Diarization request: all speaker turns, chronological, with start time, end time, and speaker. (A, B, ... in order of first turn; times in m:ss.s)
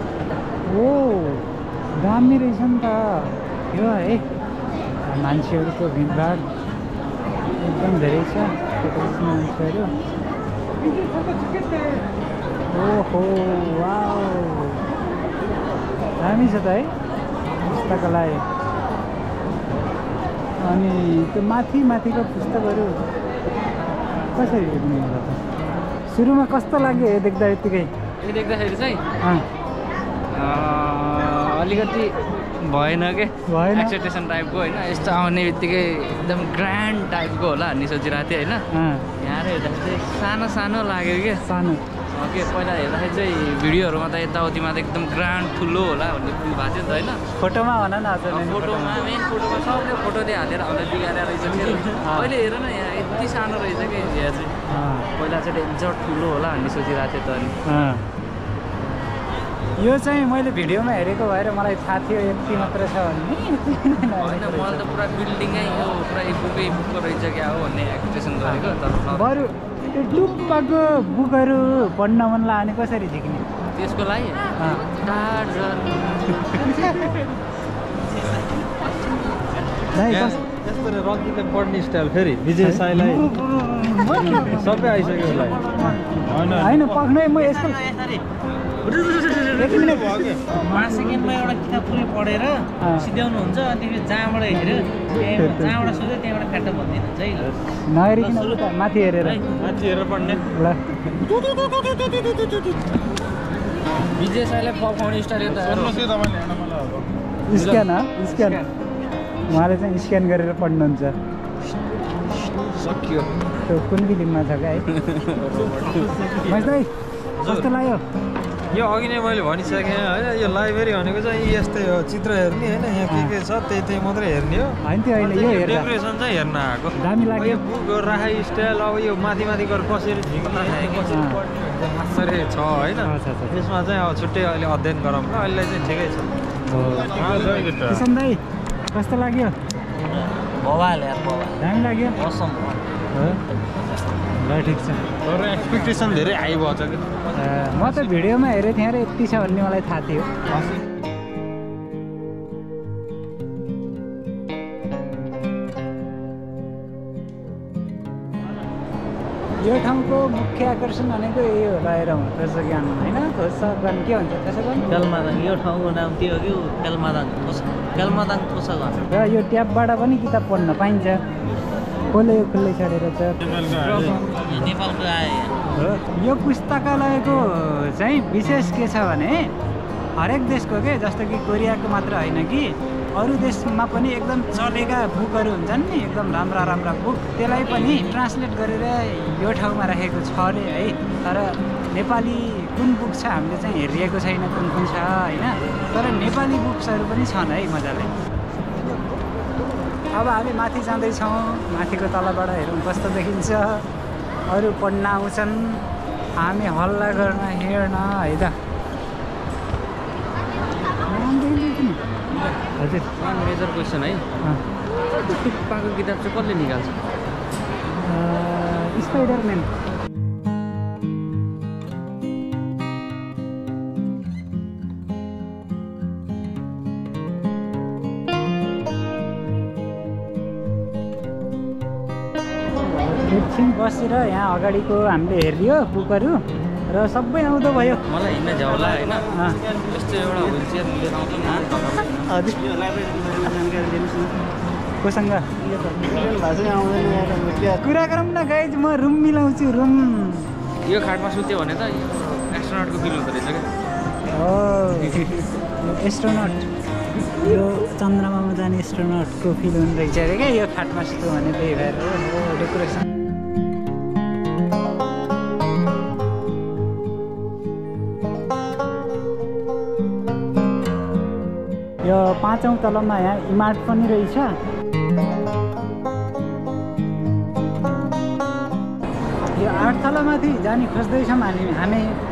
0:00.6-0:04.2 A
0:05.0-0:06.4 A
0:07.6-0:09.9 A
0:12.7-0:14.8 A
0:16.2-0:16.9 A
0:17.6-0:18.4 A
0:20.6-0:23.0 A
0:24.3-0:25.4 A
0:26.1-0:27.9 A
0:28.2-0:29.0 B
0:29.2-0:29.4 A
0:30.3-0:38.6 B
0:33.5-0:34.0 A
0:38.7-0:39.1 A
0:39.2-0:41.4 B
0:41.4-0:41.8 A
0:42.1-0:47.2 B
0:47.4-0:49.1 A
0:48.3-0:54.5 B
0:51.9-0:52.3 A
0:54.7-0:55.1 A
0:55.1-0:57.5 B
0:57.6-0:58.0 A
0:59.8-1:05.0 A
1:04.2-1:09.3 B
1:08.4-1:13.4 A
1:13.7-1:16.4 B
1:14.6-1:14.9 A
1:16.5-1:17.2 A
1:19.9-1:20.4 A
1:20.1-1:23.3 C
1:22.6-1:24.7 A
1:24.4-1:25.7 C
1:25.7-1:27.8 A
1:26.3-1:26.7 C
1:27.4-1:28.2 D
1:28.8-1:29.8 D
1:29.5-1:30.4 A
1:29.8-1:30.4 C
1:30.6-1:37.5 D
1:32.8-1:33.1 A
1:35.2-1:35.9 A
1:37.8-1:39.4 A
1:38.2-1:38.6 D
1:39.2-1:40.2 D
1:39.6-1:40.4 C
1:40.2-1:41.0 A
1:44.2-1:46.1 B
1:47.5-1:48.6 A
1:47.5-1:48.7 B
1:49.5-1:51.1 A
1:52.6-1:53.2 B
1:53.7-1:54.8 A
1:54.9-1:56.3 B
1:56.4-1:56.9 A
1:57.4-1:57.7 C
1:57.4-1:58.0 A
1:58.7-2:16.3 C
2:03.1-2:03.3 A
2:04.8-2:05.9 A
2:07.0-2:07.6 A
2:11.0-2:11.4 A
2:13.0-2:13.6 A
2:16.6-2:18.4 A
2:17.1-2:18.0 C
2:18.9-2:19.5 A
2:20.5-2:21.6 D
2:21.6-2:22.2 A
2:22.2-2:22.8 D
2:23.1-2:23.4 A
2:24.3-2:25.1 A
2:25.2-2:27.2 C
2:27.3-2:30.3 A
2:39.6-2:44.9 A
2:44.9-2:49.0 D
2:49.1-2:51.2 A
2:52.1-2:53.8 A
2:53.8-2:54.1 C
2:53.8-2:55.5 D
2:55.8-2:59.5 A
3:00.2-3:18.1 A
3:20.1-3:23.8 A
3:24.5-3:25.8 A
3:26.4-3:28.5 A
3:31.1-3:32.0 A
3:32.8-3:33.1 A
3:33.2-3:34.2 B
3:35.1-3:37.0 B
3:38.0-3:39.7 A
3:52.8-3:58.0 A
3:58.1-4:02.5 B
3:59.3-3:59.6 A
4:02.5-4:04.3 D
4:05.0-4:05.5 A
4:05.8-4:07.7 D
4:07.7-4:10.5 A
4:10.8-4:13.7 B
4:14.3-4:16.7 A
4:17.3-4:23.1 A
4:32.0-4:34.6 A
4:39.5-4:42.2 A